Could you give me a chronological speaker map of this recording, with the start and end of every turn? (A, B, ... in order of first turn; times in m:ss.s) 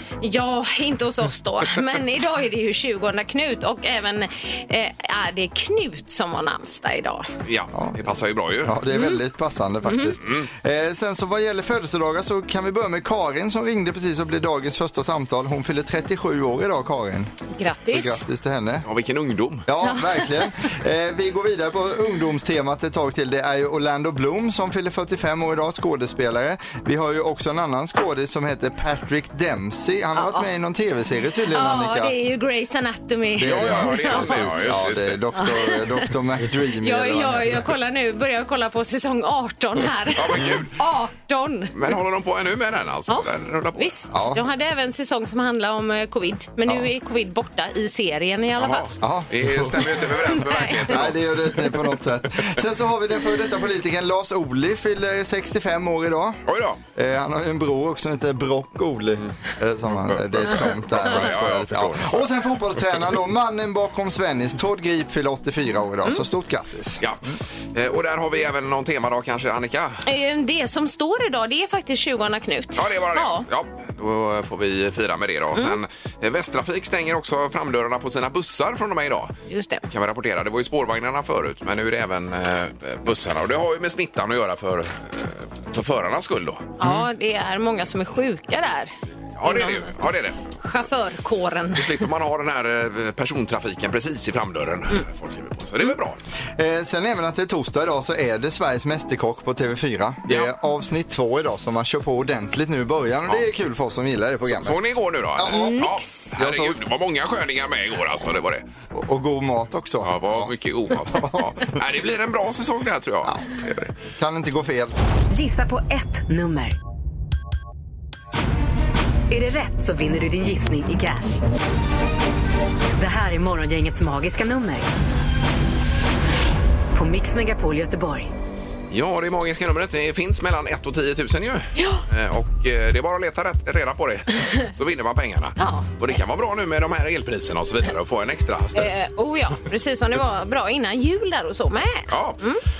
0:00.2-0:07.3 A
0:07.5-0:08.8 B
0:07.7-0:08.0 C
0:08.6-0:17.3 C
0:08.9-0:09.2 A
0:09.8-0:10.2 A
0:10.2-0:10.5 B
0:17.5-0:18.2 A
0:17.9-0:18.8 C
0:18.8-0:19.7 B
0:19.7-0:32.1 C
0:19.8-0:20.5 A
0:30.2-0:30.5 A
0:31.5-0:34.7 A
0:33.4-0:37.7 C
0:33.4-0:35.2 B
0:35.3-0:36.0 A
0:36.8-0:41.7 A
0:40.1-0:40.7 B
0:41.7-0:43.9 B
0:43.1-0:48.9 A
0:44.1-0:44.4 C
0:48.6-0:51.2 B
0:49.0-0:56.4 C
0:50.0-0:51.0 A
0:56.5-0:56.8 B
0:56.9-1:07.4 C
0:59.9-1:02.3 B
1:07.0-1:10.0 B
1:10.0-1:13.5 A
1:12.8-1:19.3 B
1:19.5-1:19.8 A
1:19.9-1:26.8 B
1:26.8-1:28.9 A
1:29.4-1:30.5 B
1:29.4-1:29.9 A
1:30.6-1:32.0 A
1:31.8-1:36.2 B
1:36.6-1:44.8 C
1:40.3-1:40.5 B
1:44.5-1:48.6 B
1:45.3-1:45.8 C
1:45.5-1:46.3 A
1:46.4-1:46.8 C
1:48.9-1:50.5 C
1:50.0-1:53.9 B
1:51.1-1:51.5 C
1:54.2-1:54.9 C
1:55.3-1:56.8 D
1:59.3-2:01.4 D
2:03.0-2:04.9 D
2:06.9-2:08.3 D
2:08.9-2:19.0 B
2:11.8-2:12.0 A
2:15.6-2:16.2 A
2:18.7-2:22.6 A
2:22.1-2:22.4 B